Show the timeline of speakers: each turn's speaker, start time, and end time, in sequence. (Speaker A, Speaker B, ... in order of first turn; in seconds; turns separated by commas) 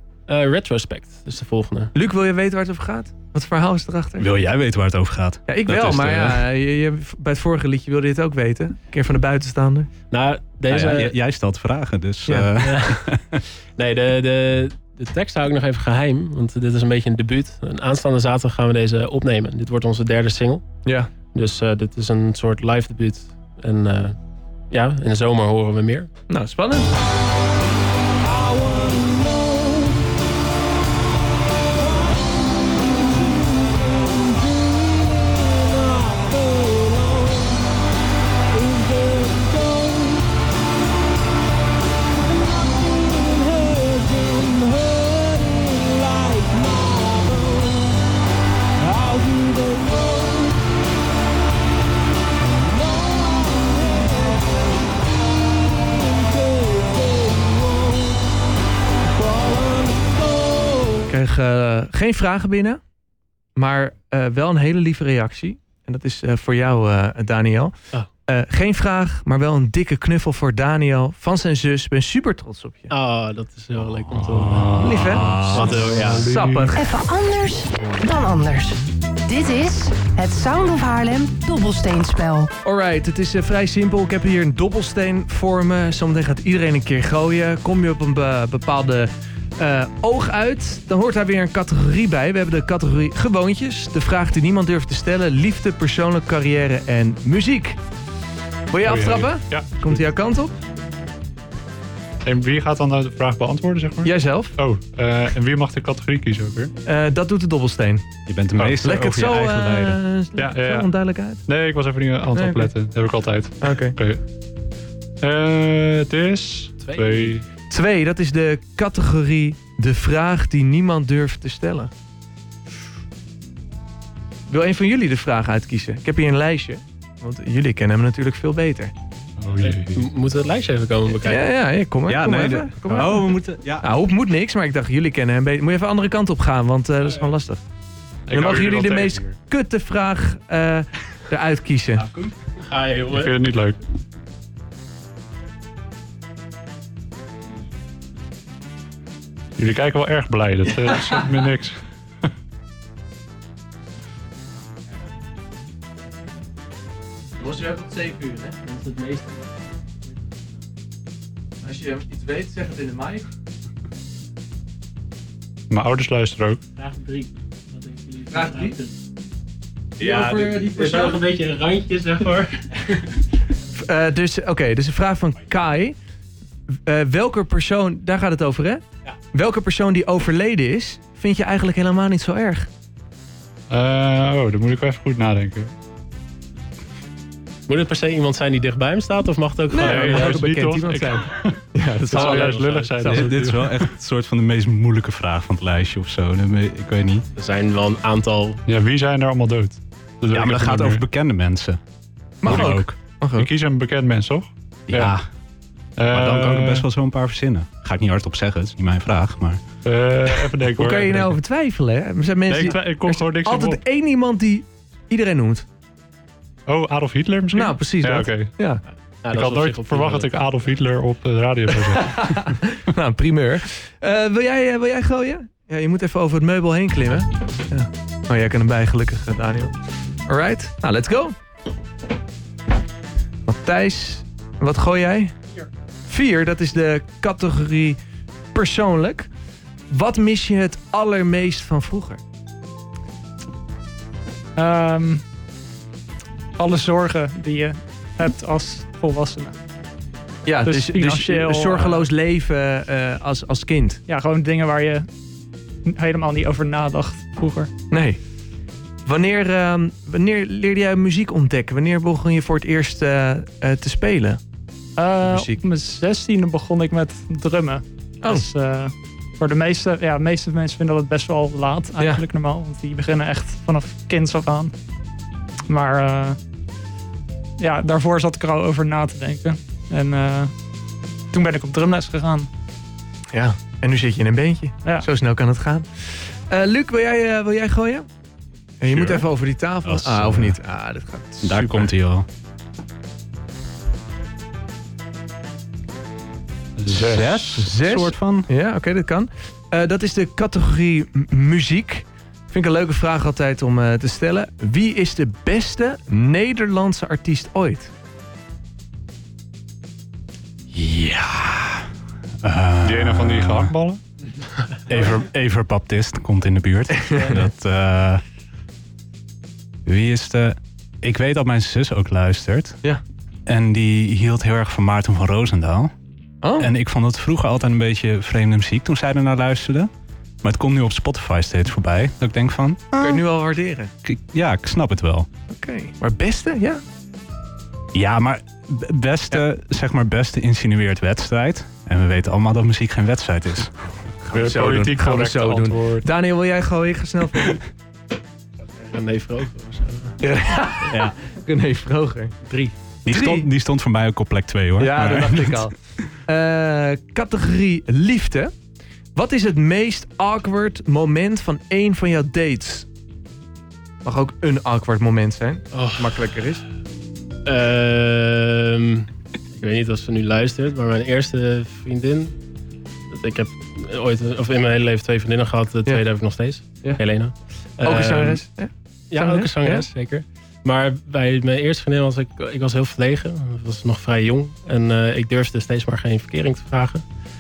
Speaker A: 0.3-1.9, Speaker B: 1.9-4.3, Speaker C: 4.2-6.5, Speaker B: 5.5-9.9, Speaker A: 10.1-11.1, Speaker C: 10.7-13.4, Speaker A: 12.6-13.1, Speaker A: 13.8-20.6, Speaker B: 20.9-21.1, Speaker A: 21.3-24.1, Speaker A: 24.7-26.1, Speaker B: 26.3-26.9, Speaker A: 28.3-30.0, Speaker A: 33.1-37.4, Speaker A: 38.5-40.2, Speaker A: 43.1-47.7, Speaker A: 48.8-50.5, Speaker A: 59.2-59.9, Speaker B: 60.9-62.8, Speaker B: 63.5-67.8, Speaker B: 68.3-72.9, Speaker A: 72.9-74.9, Speaker D: 74.1-76.7, Speaker B: 74.8-76.9, Speaker C: 75.1-75.9, Speaker A: 75.5-76.3, Speaker E: 76.8-82.5, Speaker B: 82.6-97.8, Speaker B: 98.7-100.5, Speaker D: 98.8-100.0, Speaker D: 102.2-106.7, Speaker B: 104.0-104.5, Speaker B: 106.9-108.0, Speaker C: 108.3-110.0, Speaker D: 108.6-108.9, Speaker B: 108.8-111.4, Speaker D: 110.4-110.9, Speaker D: 111.4-114.2, Speaker B: 112.3-112.7, Speaker B: 113.6-114.0, Speaker D: 115.2-117.5, Speaker A: 116.9-117.3, Speaker B: 117.7-121.9, Speaker B: 124.5-128.9, Speaker D: 129.4-130.0, Speaker A: 129.6-131.5, Speaker B: 131.2-133.2, Speaker C: 132.1-133.9, Speaker A: 132.9-133.2, Speaker B: 133.8-137.6, Speaker D: 138.3-139.3, Speaker B: 138.3-142.1, Speaker A: 142.6-143.3, Speaker D: 143.1-143.8, Speaker D: 149.6-151.8, Speaker B: 157.4-158.6, Speaker A: 158.7-159.5, Speaker B: 161.6-163.3, Speaker D: 165.7-166.6, Speaker A: 166.8-168.9, Speaker B: 168.3-168.8, Speaker B: 170.0-171.2, Speaker A: 170.0-173.1, Speaker B: 173.7-176.0, Speaker B: 176.8-182.7, Speaker D: 183.7-185.7, Speaker A: 187.7-190.4, Speaker B: 189.7-193.3, Speaker D: 189.8-191.6, Speaker A: 192.1-192.9, Speaker D: 192.1-193.8, Speaker C: 193.1-197.3, Speaker A: 197.3-198.6, Speaker D: 198.7-201.0, Speaker C: 200.3-201.8, Speaker C: 202.4-203.0, Speaker B: 202.4-203.5, Speaker D: 202.5-202.8, Speaker D: 203.4-205.2, Speaker C: 204.9-205.3, Speaker D: 206.0-206.8, Speaker C: 206.1-209.6, Speaker D: 209.8-211.4, Speaker B: 210.7-215.7, Speaker D: 212.5-213.8, Speaker D: 216.7-218.5, Speaker B: 217.5-218.8, Speaker A: 219.2-220.3, Speaker D: 219.3-222.5, Speaker B: 221.9-229.7, Speaker B: 230.3-231.3, Speaker B: 233.5-235.4, Speaker B: 236.1-238.0, Speaker B: 238.5-239.3, Speaker B: 239.9-242.2, Speaker F: 244.6-245.2, Speaker F: 246.6-249.6, Speaker B: 250.5-254.0, Speaker F: 250.7-252.1, Speaker F: 254.1-255.1, Speaker F: 255.8-257.7, Speaker B: 257.9-258.2, Speaker B: 259.1-264.4, Speaker F: 265.0-274.7, Speaker B: 265.2-265.6, Speaker B: 272.0-272.2, Speaker F: 275.7-276.4, Speaker F: 277.6-280.5, Speaker F: 281.3-282.5, Speaker B: 283.3-288.1, Speaker B: 288.8-291.9, Speaker C: 288.9-289.3, Speaker C: 289.8-290.6, Speaker C: 291.4-292.3, Speaker D: 296.8-297.5, Speaker C: 296.9-298.5, Speaker B: 297.5-307.9, Speaker C: 310.7-311.9, Speaker C: 312.4-313.7, Speaker D: 312.8-314.0, Speaker C: 314.9-318.2, Speaker B: 316.9-317.4, Speaker C: 319.9-322.8, Speaker C: 323.5-325.9, Speaker B: 326.4-326.7, Speaker C: 326.6-329.9, Speaker C: 330.4-333.2, Speaker B: 333.0-333.9, Speaker C: 334.0-335.3, Speaker B: 335.5-336.8, Speaker C: 337.9-343.7, Speaker B: 344.2-347.6, Speaker D: 344.3-346.1, Speaker A: 348.7-350.2, Speaker B: 350.2-352.4, Speaker A: 350.9-351.1, Speaker A: 352.5-352.7, Speaker C: 353.0-355.7, Speaker B: 353.1-353.5, Speaker B: 354.8-358.5, Speaker B: 359.1-362.9, Speaker B: 364.0-366.6, Speaker A: 365.7-366.1, Speaker A: 367.5-372.4, Speaker A: 373.1-378.4, Speaker B: 377.8-379.9, Speaker A: 379.1-387.0